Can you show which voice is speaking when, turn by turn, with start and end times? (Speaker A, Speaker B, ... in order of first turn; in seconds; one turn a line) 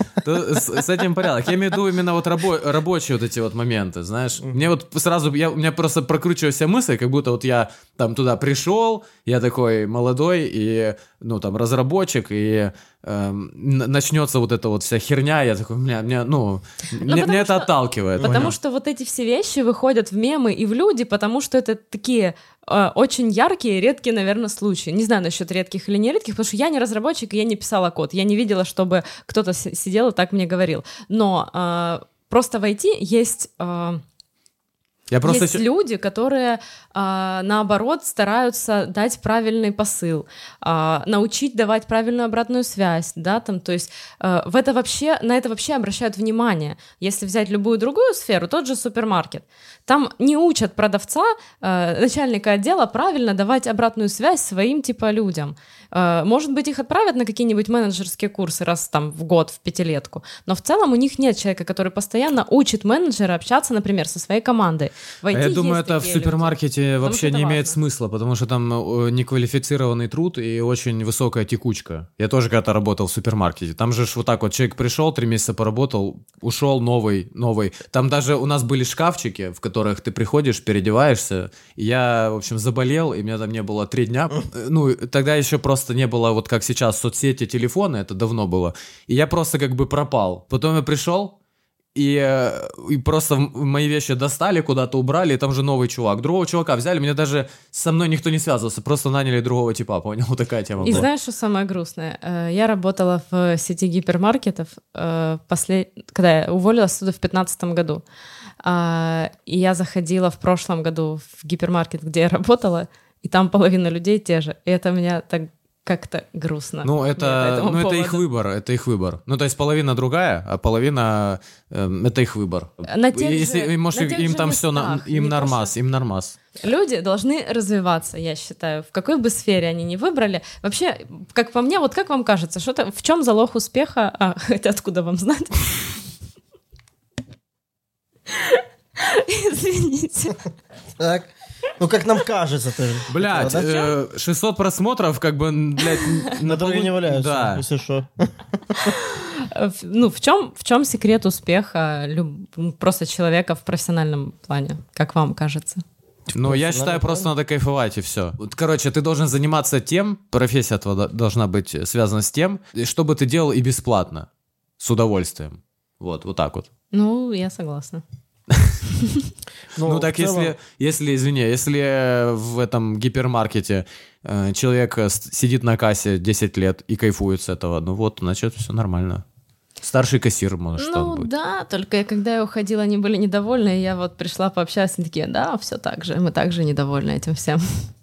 Speaker A: 0.2-18.5
Speaker B: 17.0-34.0
Speaker C: 18.2-18.5
Speaker A: 35.1-35.6
Speaker B: 35.2-67.8
Speaker A: 65.3-91.3
Speaker A: 91.9-101.1
Speaker B: 100.8-108.0
Speaker B: 108.6-118.2
Speaker A: 116.8-126.4
Speaker B: 122.9-125.7
Speaker B: 126.5-136.0
Speaker B: 138.3-140.4
Speaker C: 141.0-143.8
Speaker A: 143.1-147.6
Speaker C: 146.4-148.9
Speaker B: 148.9-155.8
Speaker C: 156.3-157.3
Speaker A: 156.3-164.3
Speaker A: 164.8-166.7
Speaker B: 166.9-168.0
Speaker A: 168.5-168.8
Speaker B: 169.0-169.3
Speaker C: 169.7-170.5
Speaker A: 169.8-179.2
Speaker A: 179.8-181.3
Speaker B: 180.8-187.8